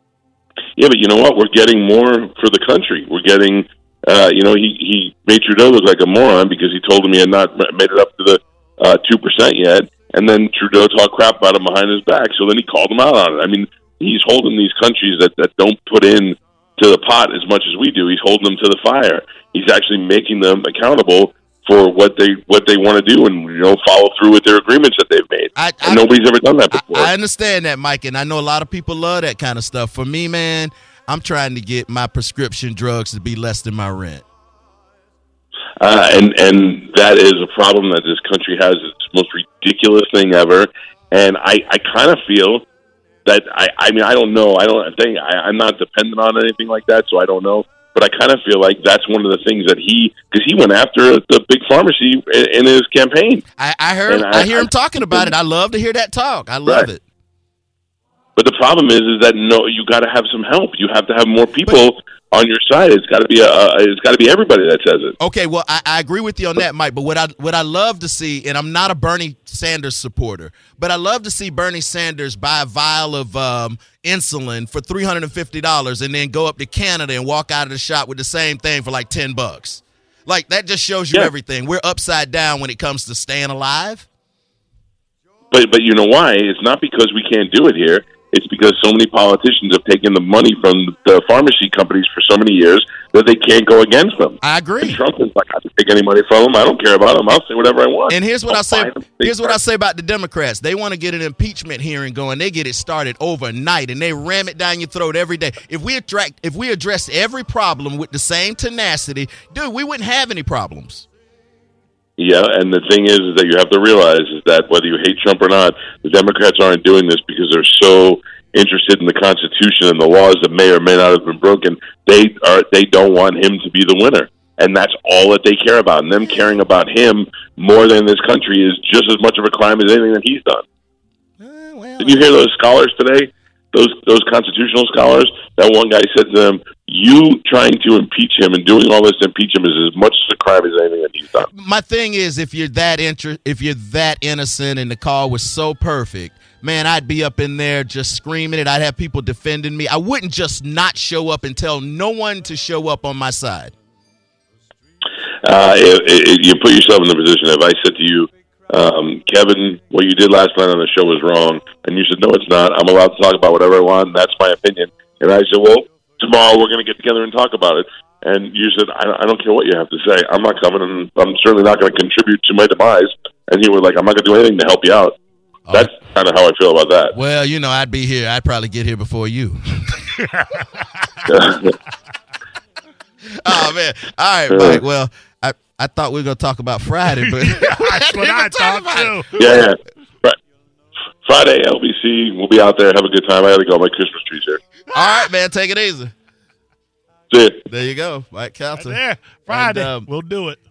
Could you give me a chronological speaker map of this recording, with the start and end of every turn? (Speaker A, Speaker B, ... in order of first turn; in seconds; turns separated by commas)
Speaker A: 0.8-27.1, Speaker B: 25.6-26.1, Speaker B: 26.7-34.2, Speaker A: 35.8-42.6, Speaker A: 43.2-53.4, Speaker B: 53.6-57.0, Speaker A: 54.1-55.3, Speaker A: 58.4-65.2, Speaker B: 65.2-84.1, Speaker A: 85.5-99.6, Speaker B: 94.4-95.0, Speaker B: 98.1-111.0, Speaker A: 112.2-130.6, Speaker B: 131.4-132.4, Speaker A: 132.0-141.5, Speaker B: 141.5-153.7, Speaker A: 155.4-175.2, Speaker A: 175.7-177.1, Speaker B: 177.1-180.0, Speaker C: 180.2-180.8, Speaker A: 181.3-181.7, Speaker B: 183.4-189.2, Speaker A: 184.5-184.8, Speaker C: 187.2-189.6, Speaker A: 189.4-190.3, Speaker A: 191.2-194.6, Speaker B: 194.9-196.1, Speaker A: 197.3-197.7, Speaker B: 197.7-200.1, Speaker C: 198.8-200.6